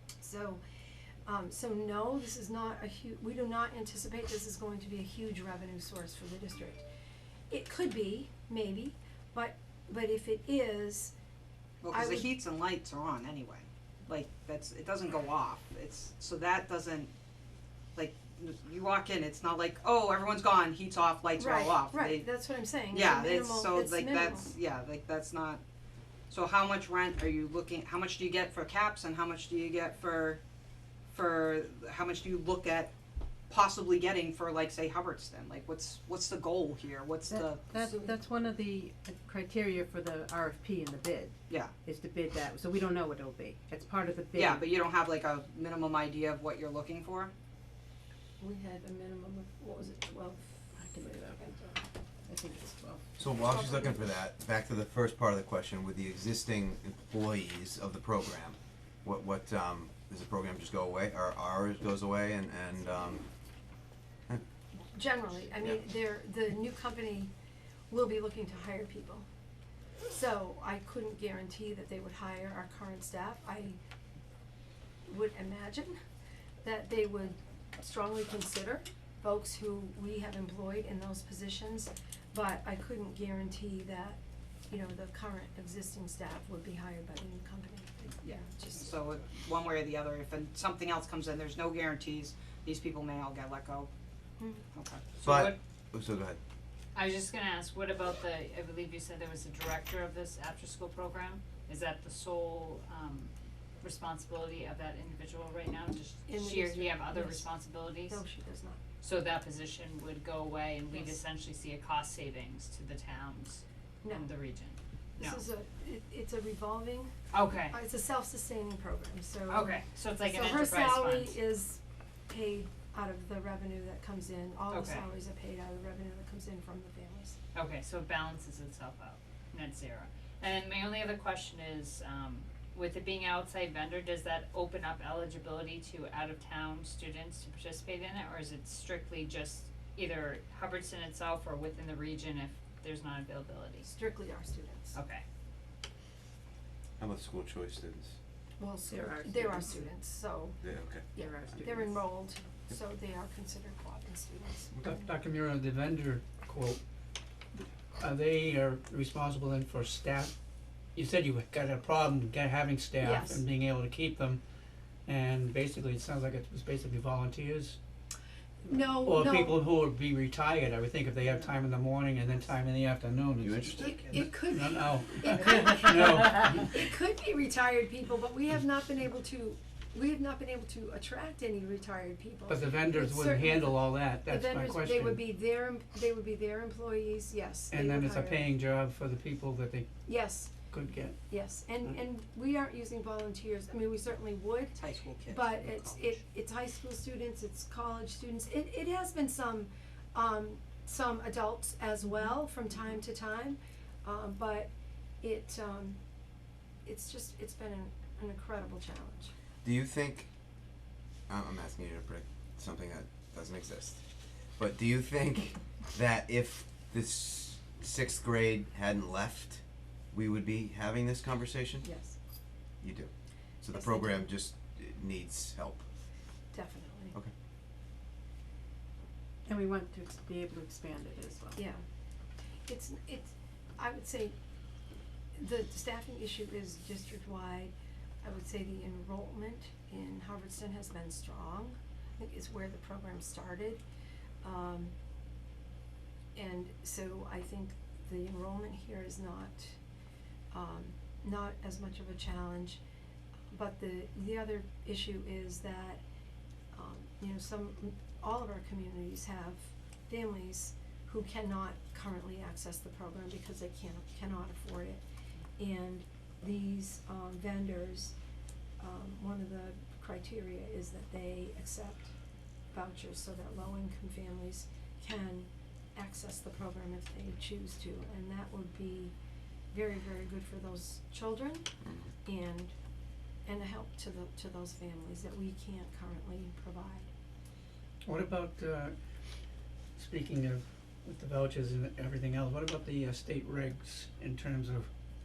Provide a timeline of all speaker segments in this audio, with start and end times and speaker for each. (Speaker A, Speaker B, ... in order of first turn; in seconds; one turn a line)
Speaker A: 0.2-0.6
Speaker A: 1.3-6.8
Speaker A: 7.5-11.1
Speaker B: 11.8-17.1
Speaker A: 11.9-12.3
Speaker B: 17.9-22.3
Speaker A: 21.4-24.5
Speaker B: 22.9-25.6
Speaker B: 26.3-30.4
Speaker B: 31.1-32.9
Speaker B: 33.5-37.8
Speaker C: 37.3-44.7
Speaker A: 37.8-38.1
Speaker B: 41.5-41.8
Speaker B: 44.3-47.3
Speaker A: 48.4-51.8
Speaker C: 50.8-51.7
Speaker C: 52.3-53.1
Speaker D: 53.2-63.3
Speaker A: 53.4-54.0
Speaker A: 64.9-67.3
Speaker A: 67.9-69.3
Speaker A: 70.1-73.8
Speaker A: 75.1-76.0
Speaker A: 76.6-88.9
Speaker B: 88.8-93.9
Speaker A: 94.4-94.7
Speaker B: 94.7-95.1
Speaker E: 95.2-95.6
Speaker D: 95.2-96.4
Speaker E: 96.9-108.2
Speaker A: 106.3-107.5
Speaker A: 108.1-108.8
Speaker E: 109.0-115.5
Speaker A: 114.0-114.3
Speaker A: 115.2-117.1
Speaker E: 117.3-117.8
Speaker A: 117.7-127.4
Speaker E: 119.5-121.4
Speaker E: 124.7-125.1
Speaker E: 127.5-143.9
Speaker A: 143.9-145.0
Speaker E: 144.9-145.2
Speaker D: 147.0-148.2
Speaker A: 148.6-150.6
Speaker C: 148.8-149.9
Speaker D: 150.6-151.1
Speaker C: 151.2-152.0
Speaker A: 151.2-155.2
Speaker F: 154.8-156.8
Speaker F: 157.6-160.3
Speaker F: 160.9-164.4
Speaker A: 163.0-163.4
Speaker F: 165.1-167.8
Speaker A: 168.7-169.6
Speaker F: 169.0-176.8
Speaker D: 173.4-174.1
Speaker A: 173.8-188.4
Speaker F: 182.5-185.2
Speaker F: 187.7-189.9
Speaker A: 190.1-190.5
Speaker F: 190.7-191.2
Speaker A: 191.3-206.0
Speaker B: 194.8-196.2
Speaker A: 206.8-209.3
Speaker D: 209.6-210.3
Speaker D: 211.3-221.9
Speaker A: 221.8-222.2
Speaker D: 222.8-223.1
Speaker D: 223.6-225.8
Speaker A: 223.7-224.3
Speaker A: 226.5-227.2
Speaker C: 229.5-231.6
Speaker A: 231.6-231.8
Speaker A: 232.7-234.4
Speaker A: 235.3-243.8
Speaker A: 244.4-244.9
Speaker A: 246.4-249.8
Speaker A: 250.5-252.8
Speaker A: 253.5-256.0
Speaker A: 256.7-265.0
Speaker A: 265.6-268.2
Speaker A: 268.8-272.1
Speaker A: 272.7-279.1
Speaker A: 279.7-281.7
Speaker D: 281.8-282.1
Speaker A: 282.2-282.7
Speaker A: 283.5-287.1
Speaker F: 288.1-288.9
Speaker F: 290.0-294.9